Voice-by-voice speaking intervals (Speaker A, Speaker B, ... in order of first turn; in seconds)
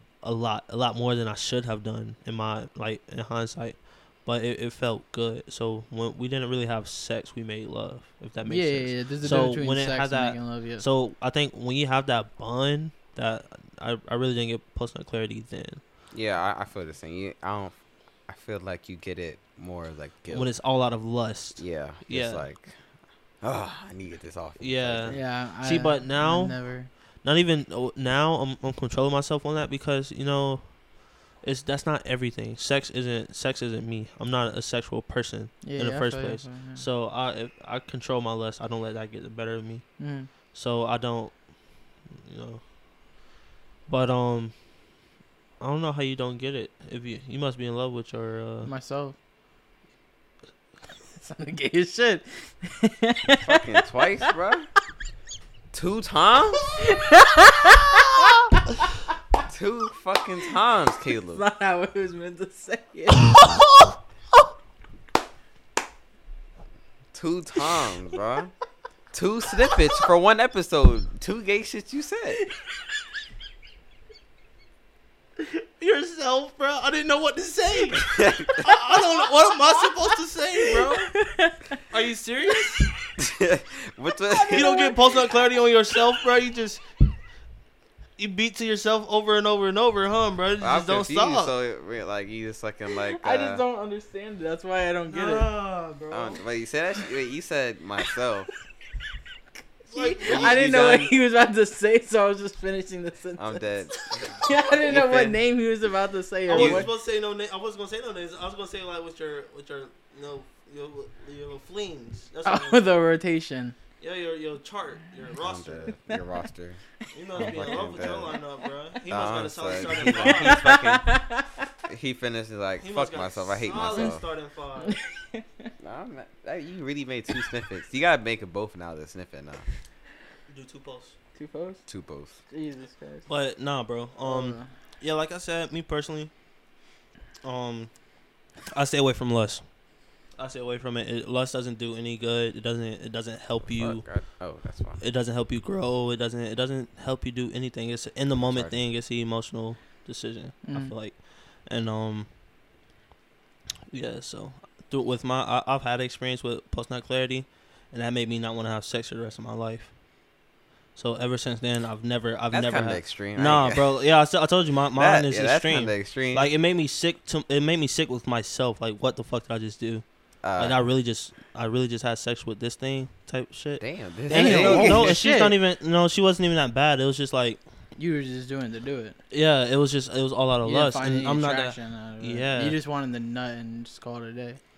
Speaker A: 0.2-15.8, 20.3-22.5, 24.6-26.6, 27.2-40.0, 40.5-41.5, 42.1-42.6, 43.9-44.6, 45.6-48.7, 75.4-81.2, 81.9-82.9, 84.5-86.8, 88.2-91.5, 95.1-96.4, 99.9-100.6, 106.5-112.9, 114.0-116.0, 117.1-120.7, 122.8-125.0, 130.5-131.2, 133.3-136.3, 137.4-137.9, 138.6-139.7, 140.4-144.1, 145.0-152.3, 153.9-159.9, 161.0-177.6, 179.3-182.8
Speaker B: 8.5-10.8, 25.1-26.9, 35.6-36.9, 40.0-40.3, 48.6-49.2, 51.1-53.8, 56.8-58.3, 61.3-63.4, 80.7-81.8, 82.6-82.9, 84.3-85.3, 93.1-95.5, 99.9-106.9, 112.5-113.8, 117.4-117.8, 120.1-121.5, 123.9-124.1, 124.8-125.7, 131.3-131.9, 132.5-133.3, 134.2-134.7, 150.7-150.9, 174.3-175.6, 178.0-179.2, 180.6-184.6
Speaker C: 16.1-20.5, 21.6-22.8, 23.4-25.2, 53.4-54.7, 55.7-56.8, 59.5-61.4, 67.1-68.5, 69.1-72.4, 77.9-78.7, 83.2-84.8, 90.6-93.6, 96.1-98.5, 100.2-101.1, 103.4-105.4, 106.5-106.9, 115.4-116.8, 117.3-118.4, 119.1-121.1, 121.9-124.3, 125.8-129.7, 131.9-132.4, 143.6-145.0, 148.4-148.8, 162.5-163.9, 164.9-166.5, 170.4-170.8, 173.8-175.2